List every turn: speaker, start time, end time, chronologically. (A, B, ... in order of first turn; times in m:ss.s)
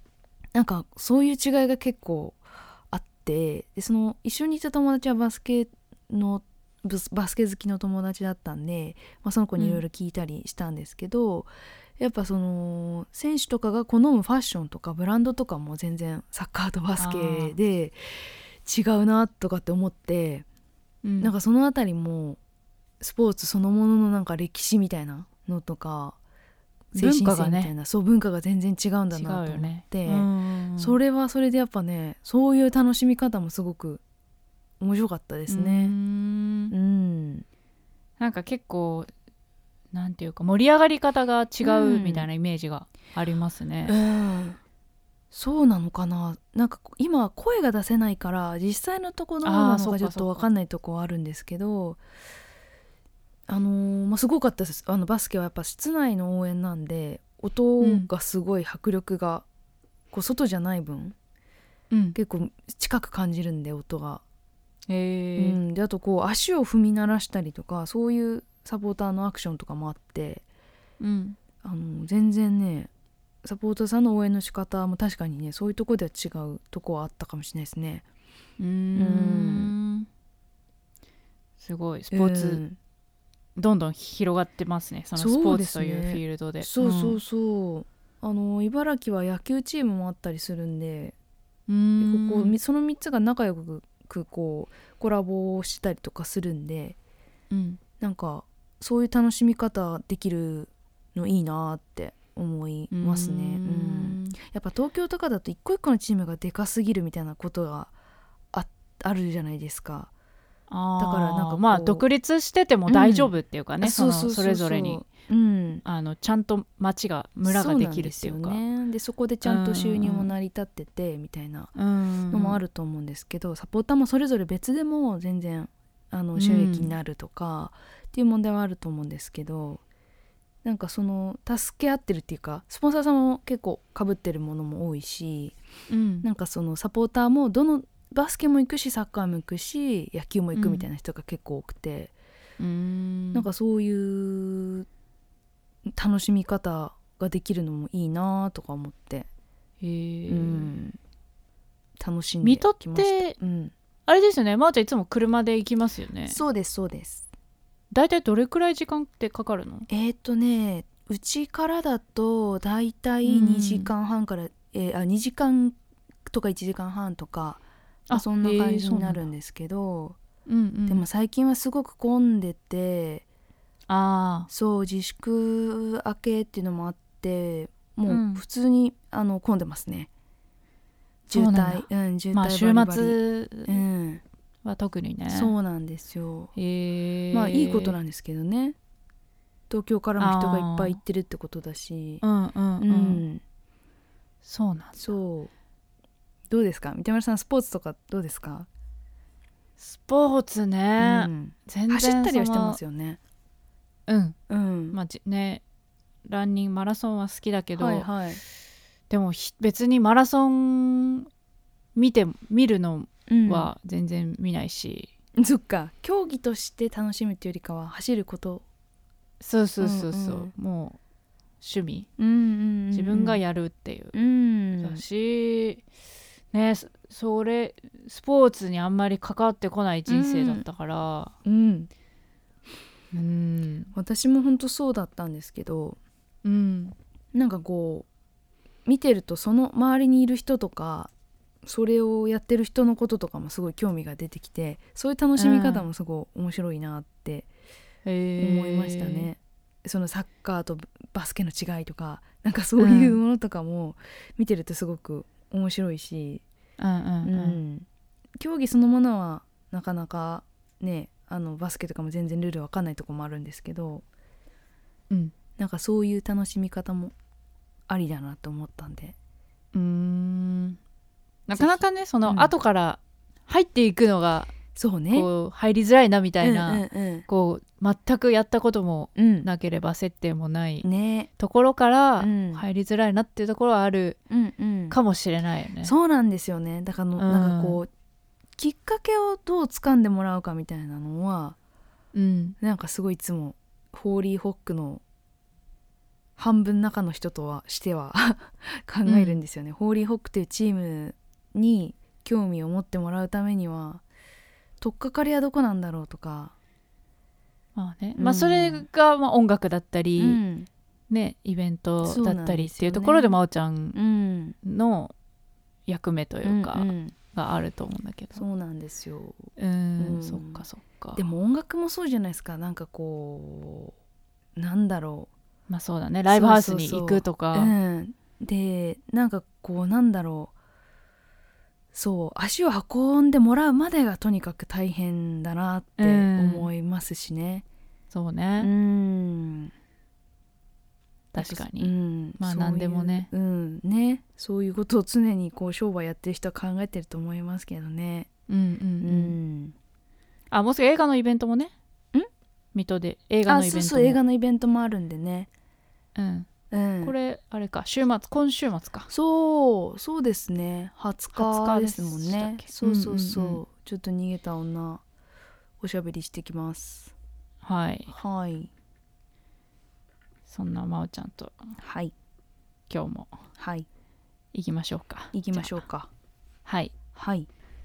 0:00.5-0:20.4 A
0:09.6-0:09.8 B
0:17.0-0:17.6 B
0:21.0-0:21.3 B
0:21.2-0:22.4 A
0:23.0-0:26.2 A
0:26.9-0:34.0 A
0:27.0-0:27.7 B
0:29.1-0:31.0 B
0:34.8-0:35.9 A
0:35.5-0:36.7 B
0:36.7-0:37.4 A
0:38.2-0:39.1 B
0:39.9-0:43.9 B
0:41.6-0:42.3 A
0:43.9-0:44.6 A
0:45.3-0:52.0 A
0:49.4-0:50.4 B
0:53.5-0:59.4 A
0:57.8-0:58.1 B
1:00.1-1:01.2 A
1:01.9-1:02.2 B
1:02.2-1:04.2 A
1:04.9-1:05.6 B
1:05.4-1:10.4 A
1:11.0-1:11.4 B
1:11.6-1:12.9 A
1:13.4-1:18.0 A
1:18.6-1:20.1 B
1:19.0-1:19.7 A
1:21.6-1:22.6 B
1:22.1-1:22.8 A
1:23.6-1:27.2 B
1:25.2-1:31.1 A
1:31.7-1:32.6 B
1:32.0-1:37.0 A
1:37.5-1:37.8 B
1:38.0-1:47.9 A
1:42.9-1:44.4 B
1:48.5-1:50.1 A
1:50.7-1:55.1 B
1:51.0-1:52.0 A
1:52.9-1:55.8 A
1:55.8-1:58.6 B
1:57.4-2:01.7 A
1:59.4-2:00.3 B
2:01.8-2:02.6 B
2:02.3-2:09.8 A
2:06.4-2:06.9 B
2:10.6-2:15.6 A
2:15.9-2:16.3 B
2:16.2-2:22.1 A
2:20.5-2:20.9 B
2:22.6-2:23.5 B
2:23.3-2:24.9 A
2:25.9-2:29.3 A
2:29.8-2:30.7 B
2:30.3-2:31.0 A
2:32.0-2:33.7 A
2:32.4-2:33.4 B
2:34.1-2:36.4 B
2:36.3-2:37.3 A
2:37.9-2:39.9 B
2:39.9-2:50.2 A
2:43.2-2:43.9 B
2:48.1-2:49.2 B
2:50.5-2:51.0 B
2:50.9-2:53.2 A
2:53.9-2:54.5 B
2:54.5-3:00.1 A
2:58.1-2:58.4 B
3:01.3-3:04.2 A
3:01.3-3:03.8 B
3:04.6-3:05.5 B
3:05.3-3:06.5 A
3:06.6-3:08.0 B
3:07.3-3:08.8 A
3:09.7-3:12.2 A
3:10.2-3:11.0 B
3:12.2-3:13.2 B
3:12.8-3:13.4 A
3:14.4-3:15.1 B
3:15.0-3:15.5 A
3:16.5-3:18.7 A
3:19.8-3:22.8 B
3:21.0-3:23.2 A
3:24.1-3:24.4 B
3:24.5-3:25.0 A
3:24.9-3:25.6 B
3:26.3-3:28.1 B
3:27.8-3:28.4 A
3:29.1-3:31.3 B
3:32.0-3:35.1 B
3:33.3-3:33.7 A
3:35.4-3:38.6 A
3:39.4-3:41.0 B
3:39.8-3:40.5 A
3:41.6-3:42.1 B
3:42.2-3:43.4 A
3:42.9-3:44.2 B
3:44.1-3:45.0 A
3:44.8-3:45.8 B
3:46.5-3:51.4 B
3:50.1-3:50.6 A
3:51.4-3:51.9 A
3:53.1-3:53.9 B
3:53.9-3:56.0 A
3:56.4-3:57.0 B
3:57.3-3:58.1 A
3:58.9-4:01.1 A
4:01.6-4:07.5 A
4:05.4-4:05.9 B
4:08.0-4:09.3 B
4:08.4-4:16.4 A
4:12.8-4:13.2 B
4:16.8-4:17.6 B
4:17.2-4:17.9 A
4:18.4-4:24.0 A
4:25.6-4:27.1 A
4:27.9-4:29.2 A
4:29.7-4:30.8 B
4:31.5-4:34.6 B
4:31.6-4:32.5 A
4:34.8-4:35.3 A
4:35.1-4:40.9 B
4:36.4-4:37.3 A
4:39.2-4:39.5 A
4:40.8-4:41.3 A
4:41.4-4:44.2 B
4:42.2-4:42.6 A
4:44.3-4:45.0 A
4:44.9-4:45.9 B
4:45.8-4:47.9 A
4:47.2-4:47.8 B
4:48.6-4:51.6 A
4:52.1-4:52.6 B
4:52.6-4:55.0 A
4:56.4-5:04.0 A
4:59.0-4:59.4 B
5:04.8-5:06.5 A
5:07.8-5:10.4 B
5:08.2-5:08.9 A
5:10.2-5:10.7 A
5:11.1-5:14.0 B
5:12.0-5:13.4 A
5:14.0-5:14.6 A
5:14.6-5:15.1 B
5:15.9-5:18.4 B
5:16.4-5:17.2 A
5:18.3-5:20.6 A
5:19.6-5:21.2 B
5:21.2-5:23.9 A
5:24.6-5:25.3 A
5:25.7-5:27.7 B
5:26.3-5:30.5 A
5:31.9-5:37.6 A
5:36.0-5:36.7 B
5:38.1-5:38.7 B
5:38.6-5:39.7 A
5:41.3-5:43.3 B
5:41.4-5:48.3 A
5:48.5-5:49.4 B
5:49.0-5:49.8 A
5:50.5-5:51.7 B
5:52.7-5:54.2 B
5:53.5-5:55.5 A
5:56.2-5:56.5 B
5:56.7-5:57.2 A
5:57.0-5:59.1 B
5:59.1-6:05.0 A
6:01.4-6:03.6 B
6:05.8-6:07.1 A
6:07.6-6:08.1 B
6:08.1-6:08.7 A
6:10.5-6:11.8 B
6:11.8-6:12.1 A
6:12.9-6:13.4 B
6:13.6-6:13.9 A
6:14.5-6:15.8 B
6:15.3-6:16.1 A
6:16.7-6:16.9 B
6:17.2-6:17.5 A